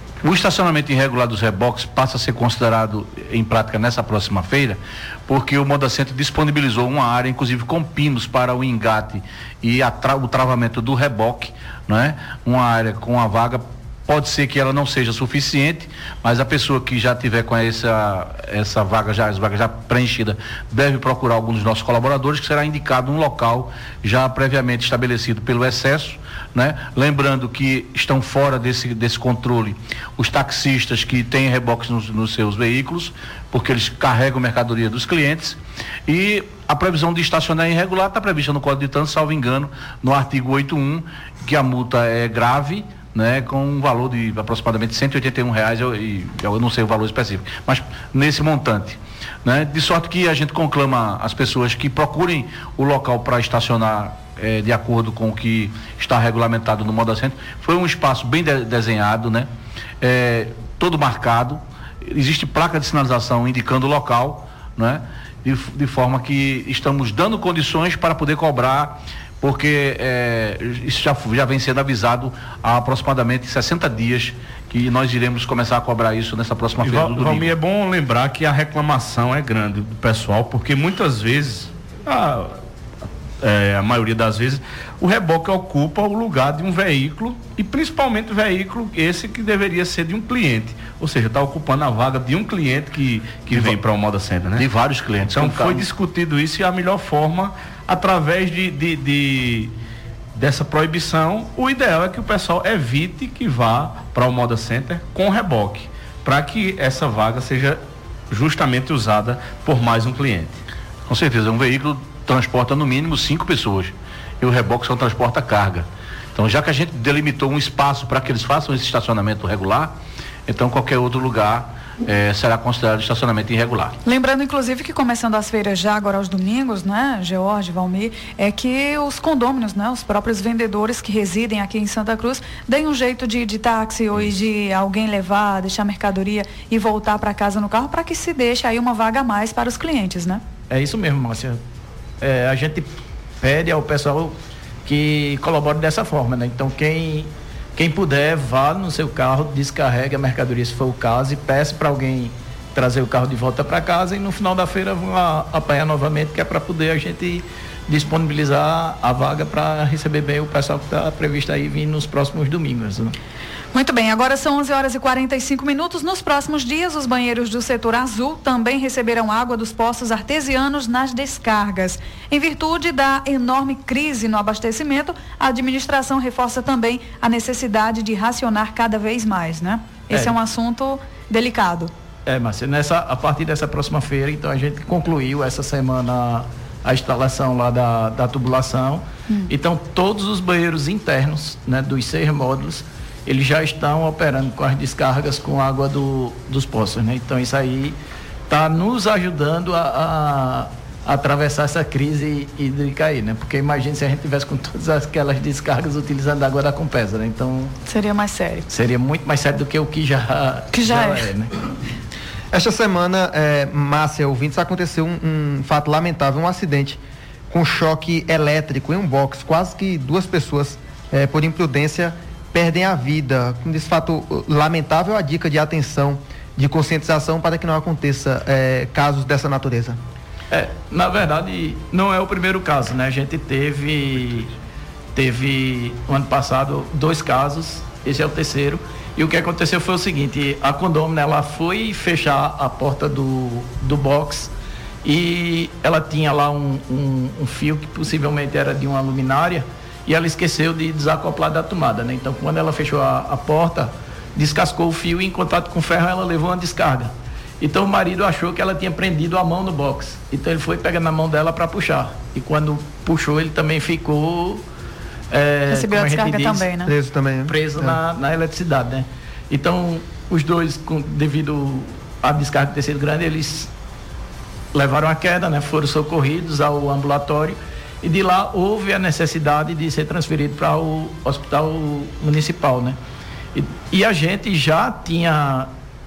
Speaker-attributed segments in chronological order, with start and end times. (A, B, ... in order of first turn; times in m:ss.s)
0:00.2-0:59.5 A
1:00.0-1:17.5 A
1:16.8-1:22.5 B
1:23.4-1:34.7 B
1:33.5-1:33.8 A
1:34.6-1:35.9 A
1:35.2-1:39.7 B
1:40.4-1:50.6 B
1:51.1-2:00.0 A
2:00.5-2:03.9 A
2:04.0-2:20.4 C
2:20.7-2:21.6 D
2:22.2-2:43.2 D
2:43.7-3:01.9 C
3:02.3-3:18.0 D
3:18.5-3:27.8 D
3:27.9-3:28.7 C
3:28.7-3:31.5 D
3:30.7-3:31.3 C
3:32.5-3:50.0 E
3:50.5-3:54.5 D
3:55.2-4:04.5 D
4:05.0-4:24.6 D
4:25.3-4:26.7 D
4:25.7-4:26.9 C
4:26.9-4:28.0 E
4:27.5-4:33.7 D
4:34.7-4:43.0 D
4:43.5-4:45.7 D